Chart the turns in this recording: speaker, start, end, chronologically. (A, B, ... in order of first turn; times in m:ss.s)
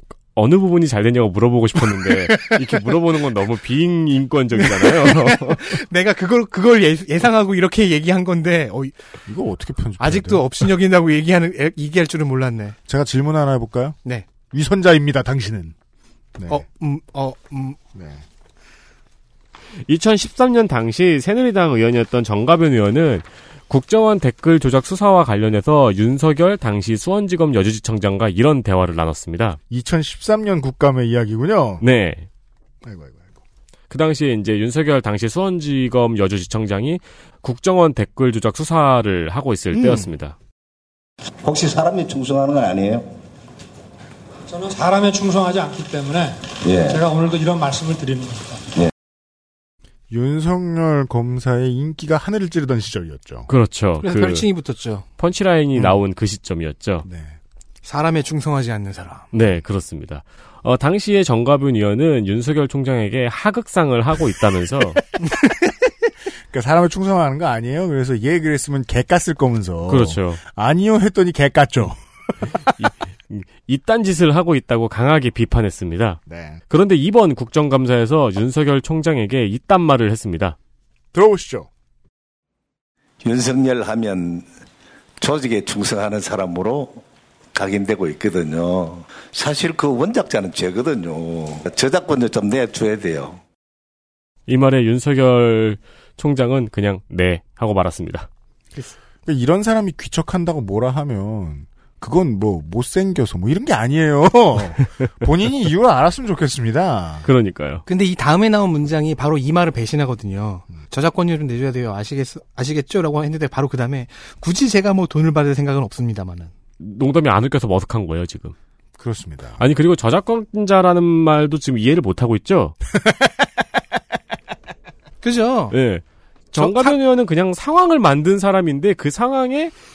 0:00.4-0:05.7 A
0:04.6-0:09.0 B
0:09.3-0:10.7 C
0:10.0-0:12.8 B
0:12.9-0:14.0 C
0:14.5-0:15.8 C
0:16.4-0:16.6 C
0:16.5-0:17.8 B
0:18.0-0:18.2 C
0:19.9-0:29.6 A
0:29.7-0:31.8 C
0:31.8-0:32.3 A
0:32.8-0:33.4 C
0:33.9-0:40.4 A
0:39.7-0:40.1 B
0:41.4-0:43.1 D
0:44.5-0:48.6 E
0:46.6-0:47.0 D
0:50.1-0:53.5 C
0:53.5-0:54.5 A
0:54.0-0:55.1 B
0:55.2-0:57.0 A
0:57.0-0:57.4 C
0:57.8-0:59.3 B
0:59.3-1:05.0 A
1:06.5-1:12.7 C
1:09.9-1:10.4 A
1:12.8-1:20.6 A
1:16.3-1:16.6 C
1:21.1-1:21.7 C
1:23.2-1:24.5 D
1:25.2-1:27.0 D
1:27.5-1:33.4 D
1:34.5-1:38.3 A
1:39.3-1:47.3 C
1:47.3-1:47.8 A
1:47.9-1:56.5 B
1:56.8-1:58.6 A
1:59.0-1:59.6 C
1:59.6-2:02.8 A
2:03.0-2:03.5 C
2:05.2-2:05.8 B
2:05.7-2:09.7 A
2:06.6-2:07.0 B